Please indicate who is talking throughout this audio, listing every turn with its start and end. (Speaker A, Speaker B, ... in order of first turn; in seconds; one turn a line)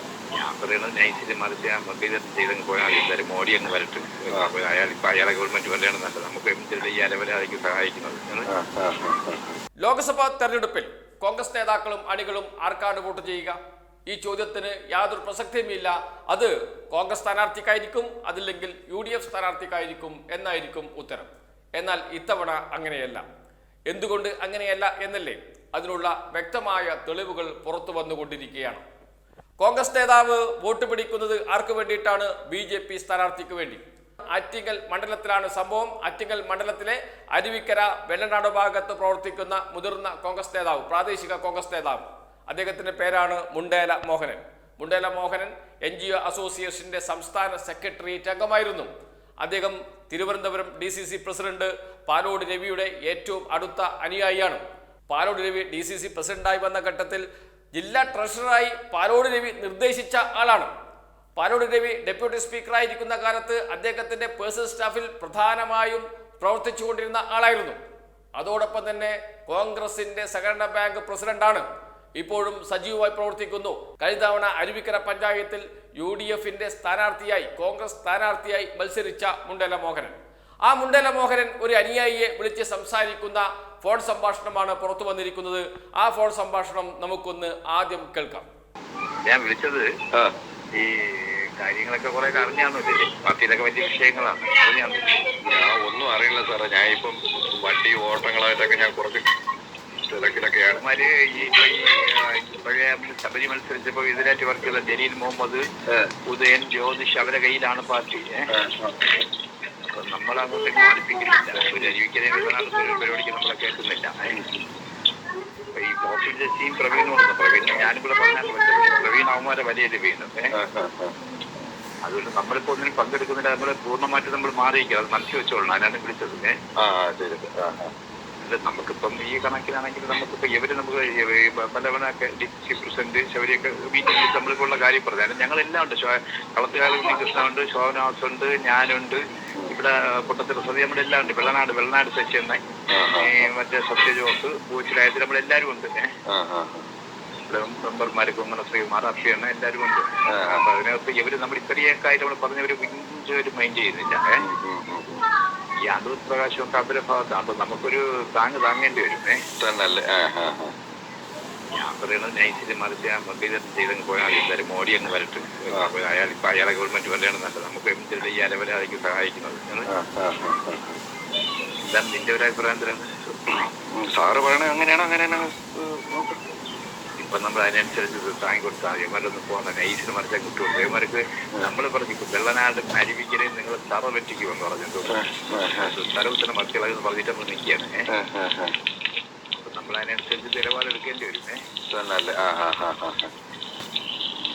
Speaker A: 0.4-8.5
Speaker B: 8.5-9.6
Speaker C: 9.8-23.2
Speaker C: 23.9-28.8
Speaker C: 29.6-33.8
Speaker C: 34.3-48.9
Speaker C: 49.4-60.7
Speaker C: 61.4-67.8
Speaker C: 68.4-71.6
Speaker C: 72.2-80.1
Speaker C: 80.7-88.5
Speaker A: 89.3-89.9
Speaker A: 90.8-95.2
Speaker B: 95.5-99.3
Speaker B: 100.1-100.8
Speaker A: 100.8-105.6
Speaker A: 106.3-108.5
Speaker B: 108.5-109.0
Speaker A: 109.8-114.4
Speaker A: 115.8-120.5
Speaker B: 120.6-121.2
Speaker A: 122.0-126.5
Speaker B: 126.8-127.9
Speaker A: 128.4-142.6
Speaker B: 142.9-143.5
Speaker A: 143.2-146.1
Speaker B: 146.3-146.9
Speaker A: 147.5-154.4
Speaker B: 150.3-150.7
Speaker B: 154.4-155.2
Speaker A: 155.9-159.4
Speaker B: 159.6-160.7
Speaker A: 161.8-169.9
Speaker B: 169.9-171.0
Speaker A: 171.8-173.1
Speaker B: 173.9-176.4
Speaker A: 177.2-188.0
Speaker B: 185.1-185.9
Speaker B: 188.1-188.8
Speaker A: 189.6-191.6
Speaker B: 191.9-193.3